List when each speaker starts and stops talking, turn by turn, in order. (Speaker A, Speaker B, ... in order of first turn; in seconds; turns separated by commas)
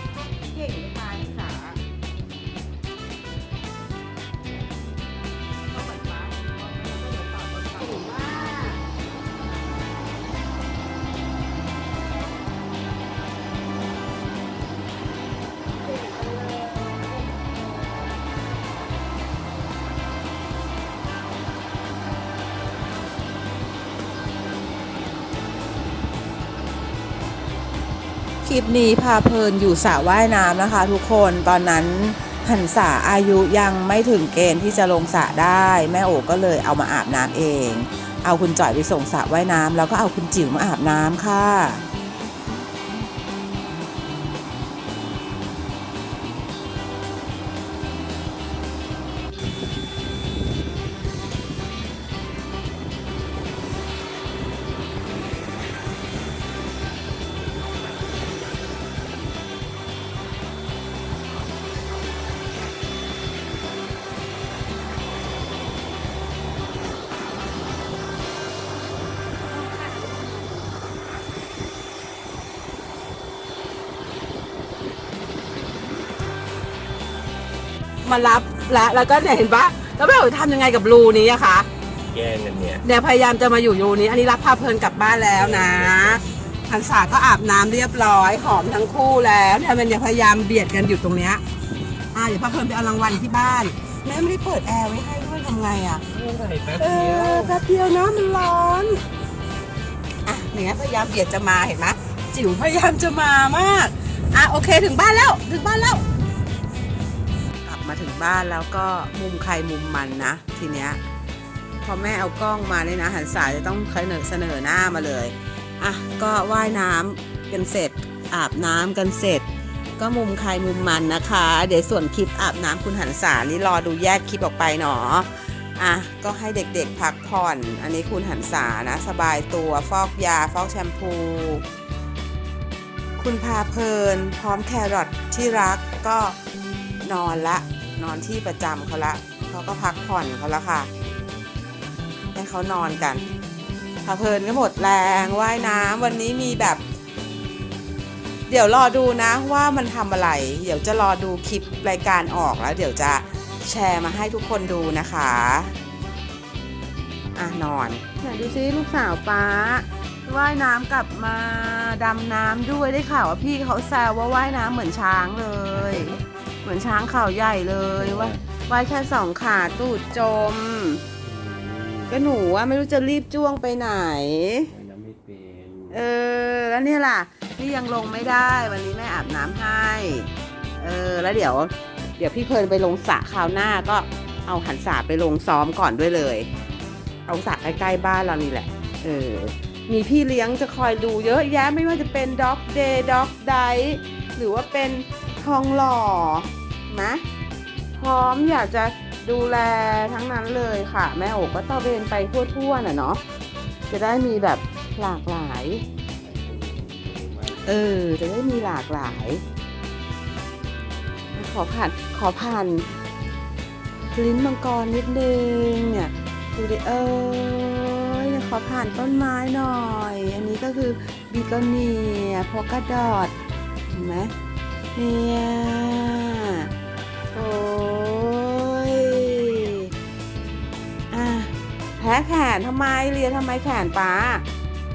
Speaker A: 0.5-1.8, Speaker A: 5.7-8.8, Speaker A: 15.8-18.2, Speaker A: 28.4-41.8, Speaker A: 69.5-70.6, Speaker A: 78.0-81.7, Speaker B: 82.1-82.8, Speaker A: 82.8-91.4, Speaker B: 85.3-86.2, Speaker A: 92.1-96.0, Speaker B: 96.1-97.5, Speaker A: 96.7-99.0, Speaker A: 100.2-106.1, Speaker A: 107.6-111.0, Speaker A: 111.8-119.5, Speaker A: 120.0-131.7, Speaker A: 133.2-136.4, Speaker A: 137.0-140.9, Speaker A: 142.3-143.3, Speaker A: 144.0-146.8, Speaker A: 148.5-155.8, Speaker A: 157.4-171.0, Speaker B: 168.0-168.4, Speaker B: 171.2-172.2, Speaker A: 172.1-174.7, Speaker B: 174.7-176.0, Speaker A: 175.9-186.5, Speaker A: 187.3-197.2, Speaker A: 198.0-203.2, Speaker A: 203.9-205.8, Speaker B: 206.2-208.0, Speaker A: 207.6-209.4, Speaker A: 211.3-212.9, Speaker A: 214.1-223.3, Speaker A: 223.9-224.3, Speaker A: 225.0-226.7, Speaker A: 227.3-229.9, Speaker A: 231.1-234.4